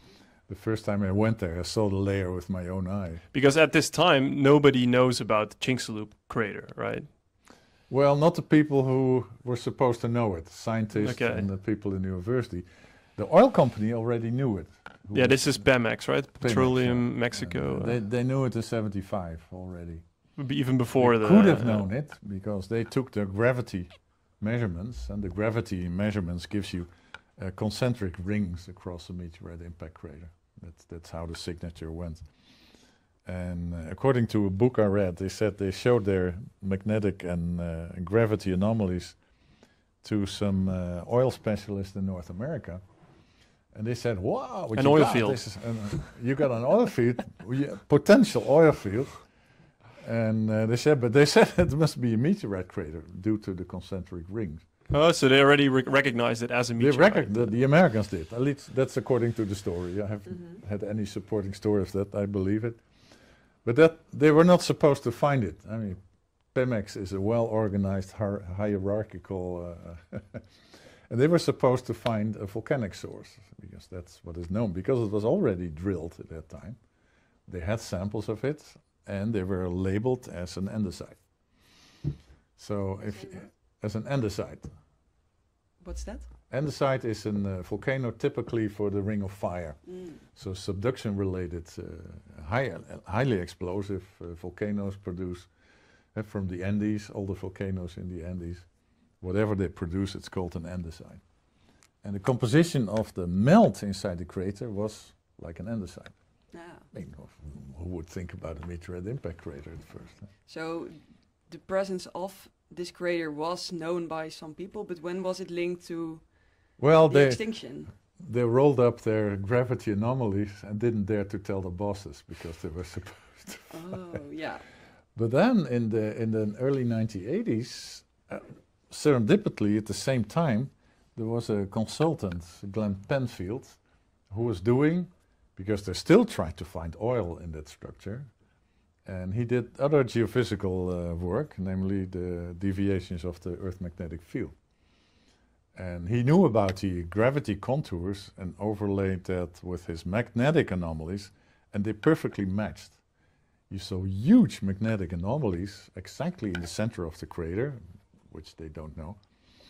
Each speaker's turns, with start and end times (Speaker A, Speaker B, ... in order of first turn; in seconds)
Speaker A: 0.5-3.2, 7.9-20.1, 20.9-32.3, 33.2-39.2, 40.0-42.8, 43.7-49.3, 50.0-54.6, 56.8-62.9, 63.6-76.8, 77.5-81.3, 82.6-84.7, 86.5-95.5, 96.1-98.7, 99.2-101.2, 102.0-106.2, 106.9-110.3, 116.8-124.0, 125.2-133.8, 134.3-138.3, 139.1-144.5, 145.7-153.0, 153.7-159.2
Speaker B: 3.3-7.1, 10.9-11.4, 15.1-18.0, 20.4-21.9, 44.8-45.5, 54.9-57.6
Speaker C: 85.8-86.3, 106.5-106.9, 110.5-117.9, 123.7-124.7